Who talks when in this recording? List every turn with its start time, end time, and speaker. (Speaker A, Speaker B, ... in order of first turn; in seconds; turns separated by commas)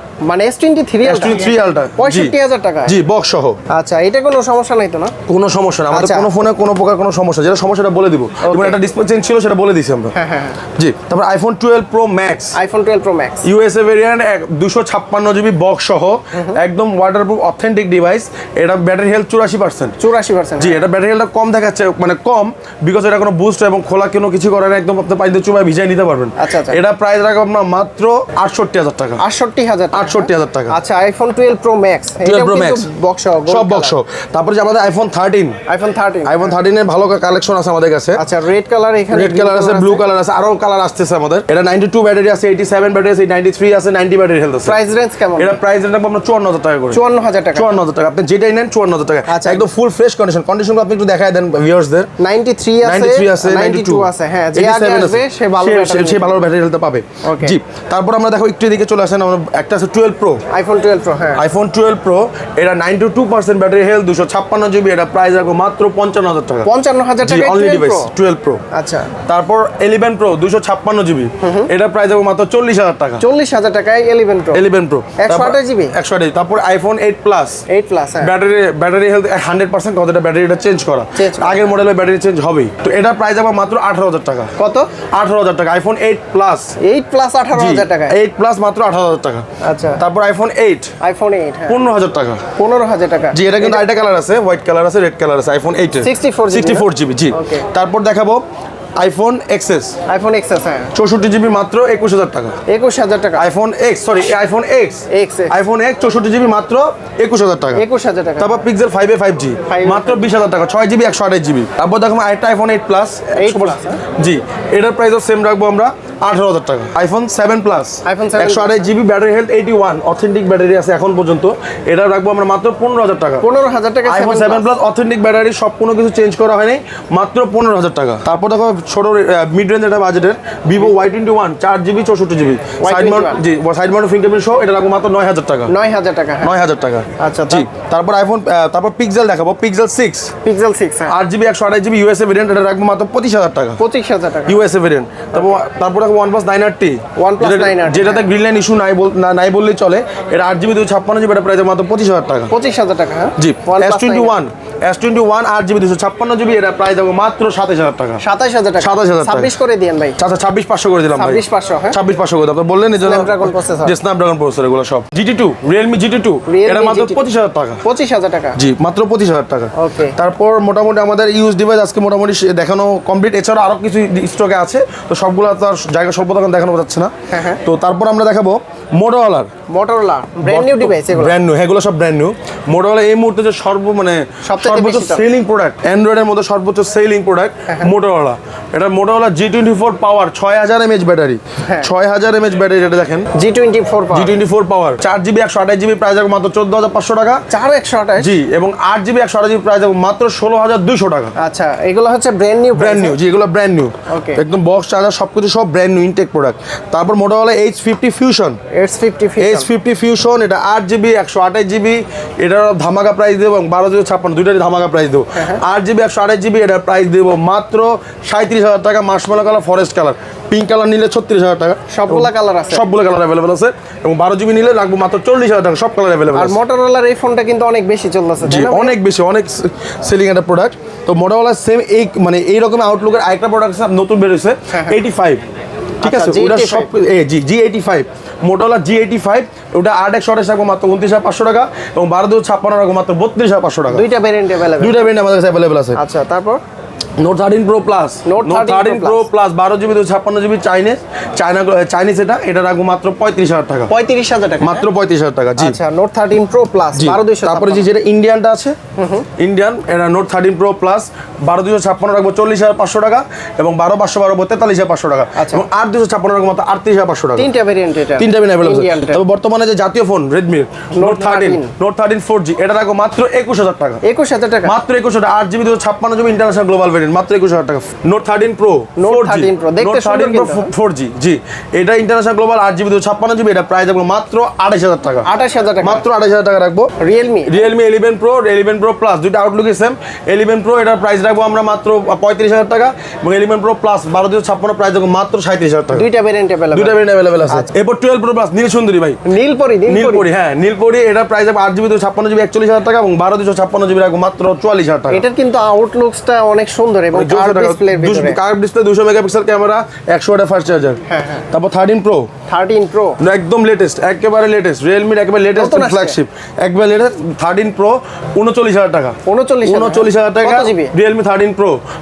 Speaker A: 0.2-3.0, Speaker B: 1.0-3.6, Speaker A: 3.7-5.1, Speaker B: 5.3-10.1, Speaker A: 5.9-6.3, Speaker A: 8.4-8.8, Speaker A: 10.1-10.6, Speaker B: 10.7-12.6, Speaker A: 12.6-13.5, Speaker B: 13.4-20.0, Speaker A: 20.0-20.8, Speaker B: 20.6-29.2, Speaker A: 26.4-26.8, Speaker A: 29.2-34.0, Speaker B: 29.9-30.8, Speaker B: 32.2-32.9, Speaker B: 33.5-35.6, Speaker A: 35.7-36.5, Speaker B: 36.2-38.2, Speaker A: 38.2-40.0, Speaker B: 39.1-44.8, Speaker A: 44.6-45.6, Speaker B: 45.4-47.0, Speaker A: 46.9-47.8, Speaker B: 47.5-52.1, Speaker A: 49.3-49.7, Speaker A: 52.2-56.4, Speaker B: 52.8-60.4, Speaker A: 57.2-57.6, Speaker A: 60.5-61.4, Speaker B: 61.4-66.7, Speaker A: 66.7-68.1, Speaker B: 67.2-68.6, Speaker A: 68.7-69.1, Speaker B: 69.2-73.2, Speaker A: 71.4-71.7, Speaker A: 73.2-74.6, Speaker B: 74.5-77.6, Speaker A: 75.2-76.0, Speaker A: 77.7-78.3, Speaker B: 78.2-84.5, Speaker A: 81.2-81.7, Speaker A: 84.6-84.9, Speaker B: 85.1-86.8, Speaker A: 86.8-88.2, Speaker B: 87.5-89.5, Speaker A: 89.6-90.0, Speaker B: 90.0-90.9, Speaker A: 91.0-91.8, Speaker B: 91.7-92.5, Speaker A: 92.6-93.9, Speaker B: 93.3-98.4, Speaker A: 96.0-97.7, Speaker B: 99.0-100.0, Speaker A: 100.1-100.9, Speaker B: 100.9-102.6, Speaker A: 102.7-103.5, Speaker B: 103.3-107.8, Speaker A: 105.1-105.5, Speaker A: 107.7-108.6, Speaker B: 108.4-123.5, Speaker A: 109.7-110.2, Speaker A: 113.3-114.0, Speaker A: 118.0-118.9, Speaker A: 123.4-124.7, Speaker B: 124.1-135.7, Speaker A: 132.8-133.4, Speaker A: 135.7-136.6, Speaker B: 136.4-140.3, Speaker A: 137.2-137.7, Speaker A: 140.4-141.2, Speaker B: 141.1-143.8, Speaker A: 143.8-144.6, Speaker B: 144.5-152.5, Speaker A: 147.2-148.3, Speaker A: 152.5-154.4, Speaker B: 153.4-158.2, Speaker A: 158.2-160.2, Speaker B: 158.8-159.5, Speaker B: 160.2-167.8, Speaker A: 161.1-162.0, Speaker A: 163.0-164.0, Speaker A: 166.5-167.3, Speaker A: 167.8-168.6, Speaker B: 168.6-179.5, Speaker A: 169.8-170.2, Speaker A: 177.3-177.6, Speaker A: 179.7-181.3, Speaker B: 180.5-193.3, Speaker A: 184.4-185.3, Speaker A: 187.7-187.9, Speaker A: 191.7-191.9, Speaker A: 193.3-194.4, Speaker B: 194.1-197.4, Speaker A: 197.5-198.3, Speaker B: 198.2-201.3, Speaker A: 201.4-203.2, Speaker B: 202.8-208.6, Speaker A: 204.1-204.4, Speaker A: 208.7-209.7, Speaker B: 209.4-226.6, Speaker A: 215.3-215.6, Speaker A: 221.9-222.8, Speaker A: 226.3-229.0, Speaker B: 228.4-235.4, Speaker A: 234.7-235.0, Speaker A: 236.0-236.9, Speaker B: 236.0-244.1, Speaker A: 243.9-245.2, Speaker B: 244.8-246.0, Speaker A: 245.9-246.6, Speaker B: 247.2-253.9, Speaker A: 248.2-249.3, Speaker A: 253.9-254.9, Speaker B: 254.6-255.8, Speaker A: 255.6-257.9, Speaker B: 257.0-258.8, Speaker A: 259.0-259.3, Speaker B: 259.4-267.5, Speaker A: 265.4-265.7, Speaker A: 267.4-269.2, Speaker B: 268.2-274.0, Speaker A: 270.9-271.7, Speaker A: 274.0-274.8, Speaker B: 274.6-285.3, Speaker A: 279.0-280.7, Speaker A: 285.2-286.1, Speaker B: 285.8-286.9, Speaker A: 287.0-287.7, Speaker B: 287.5-296.1, Speaker A: 295.9-297.7, Speaker B: 296.7-299.2, Speaker A: 299.3-300.3, Speaker B: 299.9-305.2, Speaker A: 305.1-308.4, Speaker B: 307.1-311.0, Speaker A: 311.1-311.5, Speaker B: 311.5-312.3, Speaker A: 312.5-313.2, Speaker B: 313.2-321.8, Speaker A: 315.6-316.2, Speaker A: 319.3-320.9